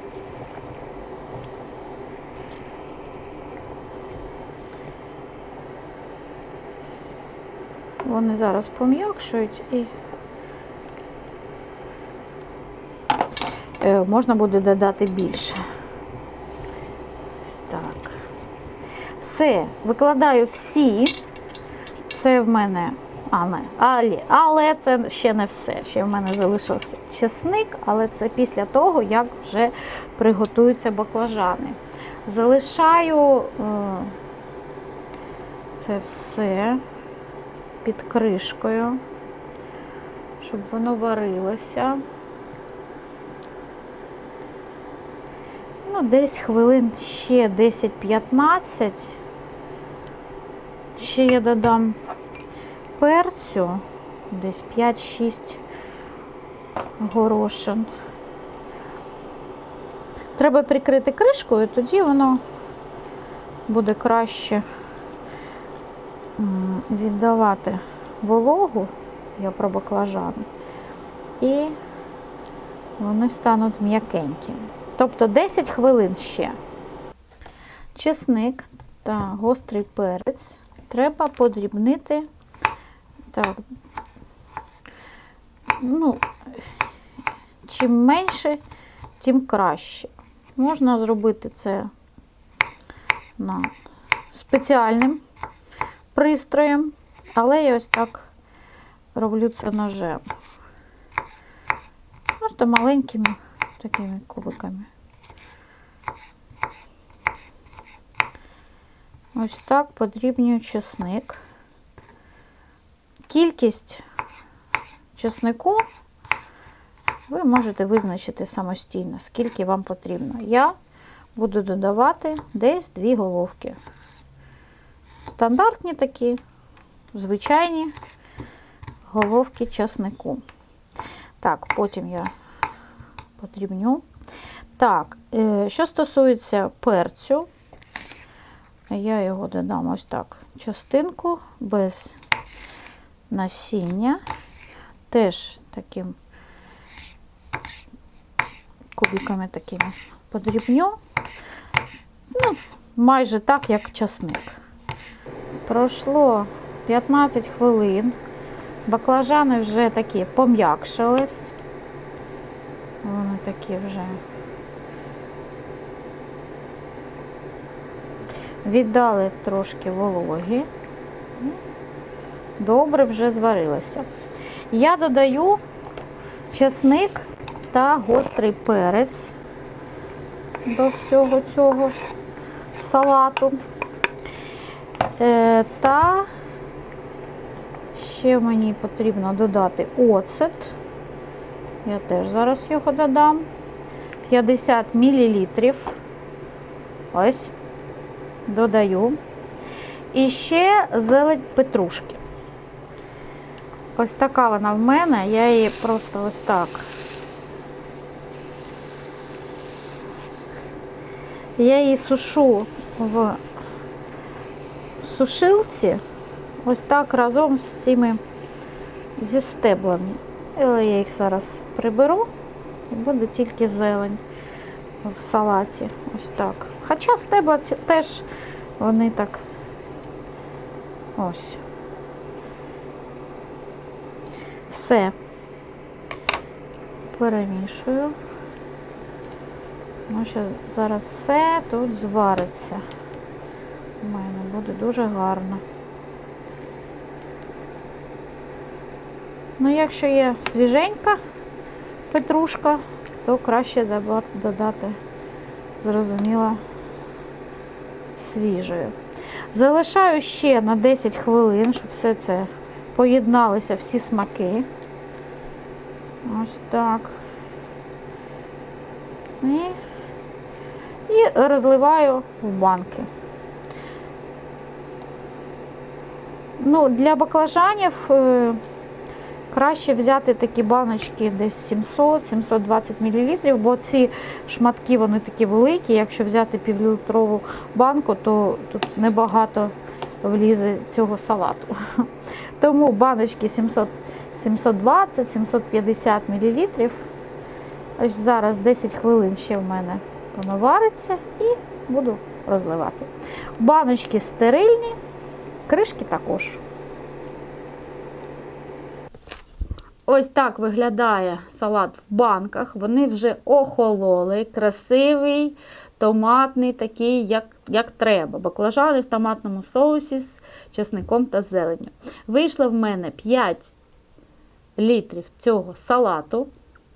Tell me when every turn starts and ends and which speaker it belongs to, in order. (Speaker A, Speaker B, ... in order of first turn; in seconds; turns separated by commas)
Speaker A: 8.1-9.9, Speaker A: 13.8-15.6, Speaker A: 17.4-18.2, Speaker A: 19.2-21.2, Speaker A: 22.1-34.1, Speaker A: 35.8-36.8, Speaker A: 37.8-39.0, Speaker A: 40.4-42.0, Speaker A: 45.8-49.2, Speaker A: 51.0-52.0, Speaker A: 53.0-55.6, Speaker A: 57.0-57.9, Speaker A: 60.4-62.4, Speaker A: 63.7-64.7, Speaker A: 66.4-70.5, Speaker A: 71.4-71.8, Speaker A: 73.0-76.6, Speaker A: 78.0-82.3, Speaker A: 83.3-83.6, Speaker A: 85.8-86.3, Speaker A: 87.7-88.6, Speaker A: 89.2-91.9, Speaker A: 93.4-93.7, Speaker A: 94.3-95.2, Speaker A: 96.1-98.3, Speaker A: 99.2-100.2, Speaker A: 102.4-104.9, Speaker A: 109.3-111.4, Speaker A: 113.3-114.0, Speaker A: 115.2-115.9, Speaker A: 117.3-120.7, Speaker A: 121.3-123.8, Speaker A: 125.3-126.4, Speaker A: 127.1-127.9, Speaker A: 129.1-130.4, Speaker A: 131.4-132.3, Speaker A: 133.4-134.1, Speaker A: 134.8-137.5, Speaker A: 138.9-142.2, Speaker A: 143.3-144.2, Speaker A: 145.1-146.2, Speaker A: 148.9-151.0, Speaker A: 152.3-154.6, Speaker A: 155.7-158.2, Speaker A: 158.9-161.3, Speaker A: 163.0-164.2, Speaker A: 168.6-170.7, Speaker A: 172.6-174.1, Speaker A: 174.7-175.6, Speaker A: 176.5-179.3, Speaker A: 180.7-181.9, Speaker A: 182.7-183.6, Speaker A: 185.2-186.3, Speaker A: 187.9-190.8, Speaker A: 191.8-193.5, Speaker A: 194.3-196.0, Speaker A: 197.1-197.5, Speaker A: 198.5-199.2, Speaker A: 200.1-202.2, Speaker A: 204.0-206.9, Speaker A: 211.6-213.4, Speaker A: 215.0-216.0, Speaker A: 216.6-218.2, Speaker A: 219.2-222.3, Speaker A: 222.9-224.2, Speaker A: 225.0-228.3, Speaker A: 228.8-229.4, Speaker A: 231.2-231.6, Speaker A: 234.7-235.1, Speaker A: 237.1-238.2, Speaker A: 240.1-242.8, Speaker A: 244.0-245.6, Speaker A: 249.6-251.2, Speaker A: 252.1-255.0, Speaker A: 255.8-256.6, Speaker A: 258.1-258.9, Speaker A: 259.5-264.7, Speaker A: 266.2-267.2, Speaker A: 269.4-269.8, Speaker A: 271.1-273.1, Speaker A: 276.6-278.6, Speaker A: 279.5-297.1, Speaker A: 298.0-305.0, Speaker A: 305.7-306.6, Speaker A: 310.1-323.8, Speaker A: 324.8-326.5